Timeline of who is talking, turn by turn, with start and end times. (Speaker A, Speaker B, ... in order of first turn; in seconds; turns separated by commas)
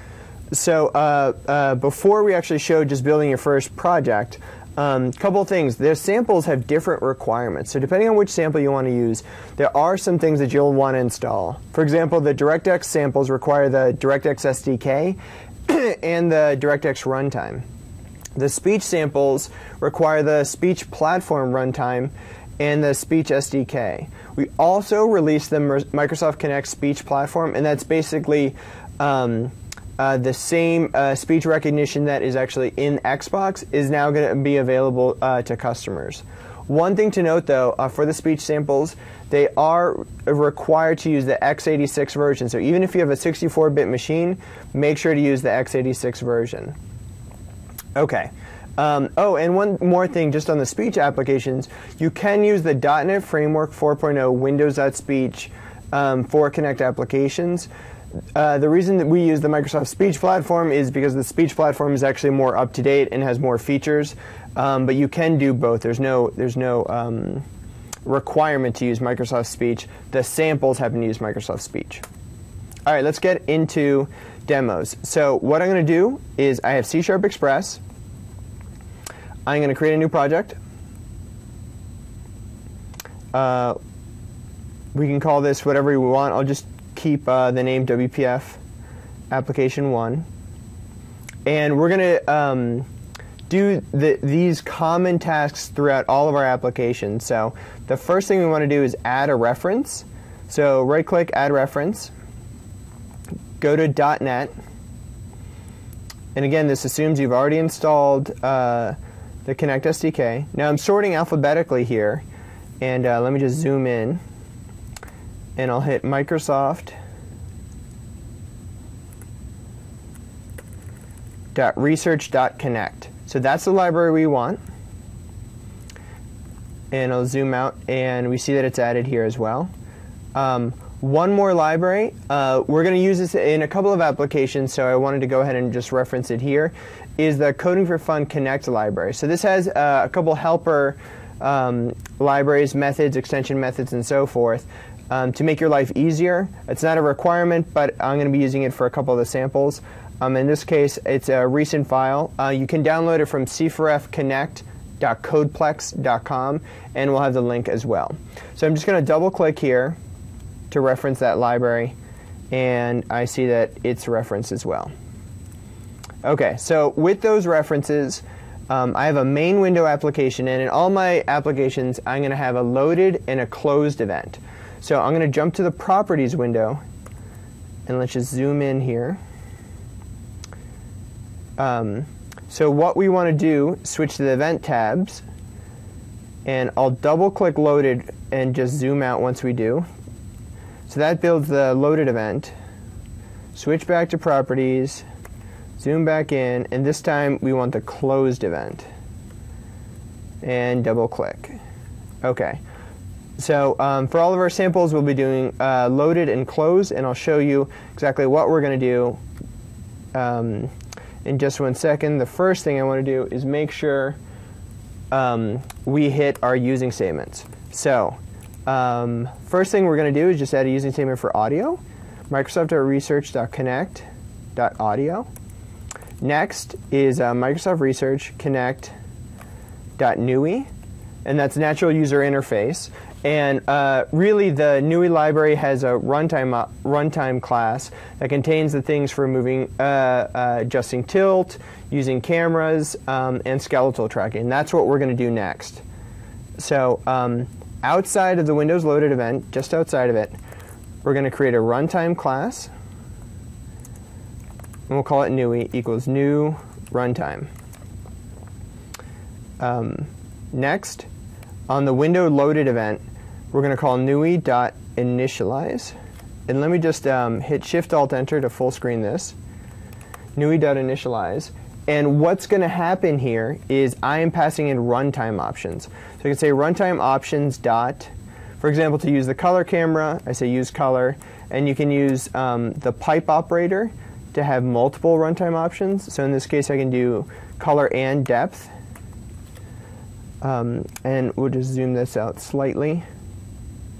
Speaker A: 0.5-17.6, Speaker A: 18.4-46.8, Speaker A: 47.9-57.7, Speaker A: 58.3-67.4, Speaker A: 68.0-72.0, Speaker A: 72.8-77.8, Speaker A: 79.5-80.6, Speaker A: 83.3-83.8, Speaker A: 84.9-88.6, Speaker A: 89.3-90.3, Speaker A: 91.4-92.9, Speaker A: 93.5-102.1, Speaker A: 103.6-104.5, Speaker A: 106.3-112.2, Speaker A: 112.8-114.2, Speaker A: 115.6-116.9, Speaker A: 121.5-124.6, Speaker A: 126.9-129.7, Speaker A: 130.3-160.0, Speaker A: 160.7-161.9, Speaker A: 162.5-164.9, Speaker A: 166.2-176.8, Speaker A: 177.9-179.2, Speaker A: 181.6-185.2, Speaker A: 186.4-189.9, Speaker A: 190.9-192.5, Speaker A: 193.5-195.1, Speaker A: 195.8-198.8, Speaker A: 200.4-201.5, Speaker A: 202.2-202.6, Speaker A: 203.4-209.2, Speaker A: 210.1-210.7, Speaker A: 211.2-214.2, Speaker A: 215.1-225.3, Speaker A: 226.2-228.9, Speaker A: 230.0-230.7, Speaker A: 231.2-245.8, Speaker A: 246.6-250.3, Speaker A: 251.0-252.7, Speaker A: 254.9-257.5, Speaker A: 259.6-261.1, Speaker A: 261.7-265.9, Speaker A: 266.5-269.4, Speaker A: 270.4-288.7, Speaker A: 290.4-293.0